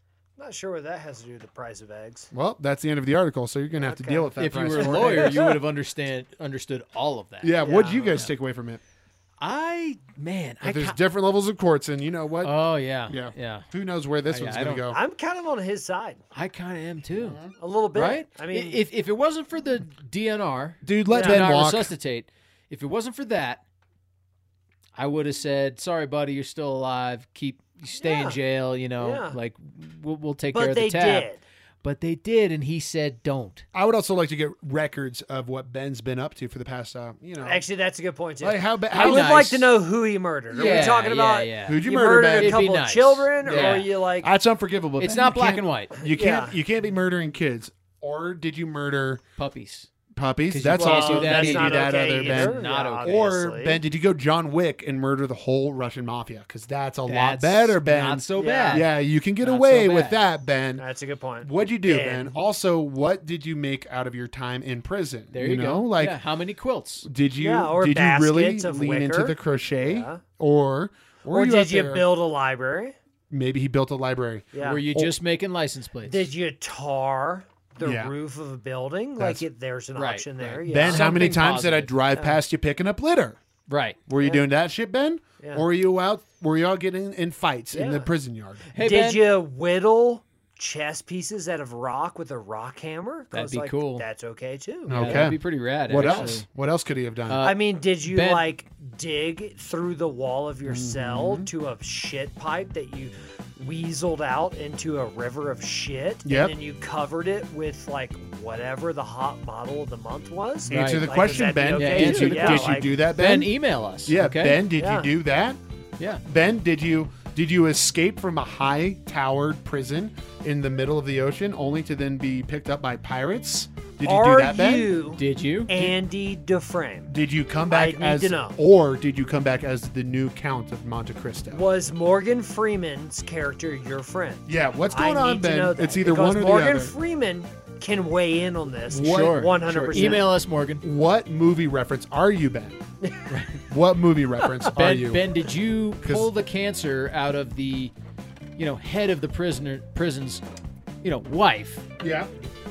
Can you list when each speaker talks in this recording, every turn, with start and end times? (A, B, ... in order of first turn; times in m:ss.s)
0:00.4-0:02.3 A
0:02.3-0:05.5 B
0:03.8-0:05.5 A
0:04.4-0:07.6 C
0:07.4-0:08.8 B
0:07.6-0:08.1 A
0:09.4-0:11.0 C
0:10.6-0:12.6 B
0:12.4-0:13.7 C
0:13.1-0:15.0 B
0:14.3-0:14.9 C
0:14.9-0:16.2 A
0:16.3-0:17.4 C
0:17.2-0:17.5 B
0:17.6-0:18.8 A
0:17.9-0:23.6 C
0:20.8-0:21.9 B
0:21.1-0:21.4 A
0:25.0-0:31.3 C
0:28.0-0:28.4 A
0:29.0-0:29.4 A
0:30.5-0:31.4 A
0:31.8-0:33.6 C
0:33.7-0:37.6 B
0:37.4-0:44.3 A
0:38.4-0:39.5 B
0:38.9-0:39.7 C
0:40.5-0:41.0 B
0:40.5-0:43.9 C
0:41.6-0:42.7 B
0:43.4-0:49.2 B
0:45.0-0:46.0 C
0:46.0-0:46.5 A
0:49.4-0:49.9 C
0:50.1-1:00.8 B
0:50.5-0:53.2 C
0:50.7-0:53.8 A
0:57.1-1:00.2 C
0:58.4-0:58.8 A
1:00.8-1:02.4 A
1:01.4-1:06.2 B
1:05.3-1:07.1 C
1:07.0-1:12.0 B
1:07.4-1:10.2 A
1:11.3-1:12.9 A
1:13.3-1:15.1 B
1:14.5-1:14.8 A
1:14.6-1:16.3 C
1:16.0-1:21.3 A
1:17.8-1:18.1 B
1:19.2-1:19.4 B
1:20.0-1:22.0 C
1:20.7-1:23.4 B
1:23.7-1:24.0 C
1:24.1-1:28.7 B
1:27.7-1:28.1 A
1:28.7-1:29.3 C
1:28.8-1:35.3 A
1:33.3-1:34.1 C
1:34.9-1:37.5 B
1:34.9-1:36.4 C
1:35.9-1:36.4 A
1:37.3-1:38.4 C
1:37.4-1:52.9 A
1:40.7-1:41.5 B
1:46.2-1:46.5 B
1:50.7-1:53.5 B
1:50.7-1:54.6 C
1:54.0-1:55.6 B
1:54.8-1:55.1 A
1:56.2-2:04.9 B
2:04.0-2:07.1 A
2:05.2-2:05.7 C
2:07.1-2:11.6 B
2:07.7-2:08.6 A
2:11.5-2:20.3 A
2:14.4-2:16.9 B
2:18.9-2:20.3 B
2:19.0-2:20.8 C
2:20.8-2:22.8 B
2:23.3-2:23.6 C
2:23.7-2:25.2 B
2:24.7-2:27.9 C
2:26.0-2:26.3 B
2:28.6-2:30.4 C
2:31.0-2:31.9 C
2:32.0-2:32.3 B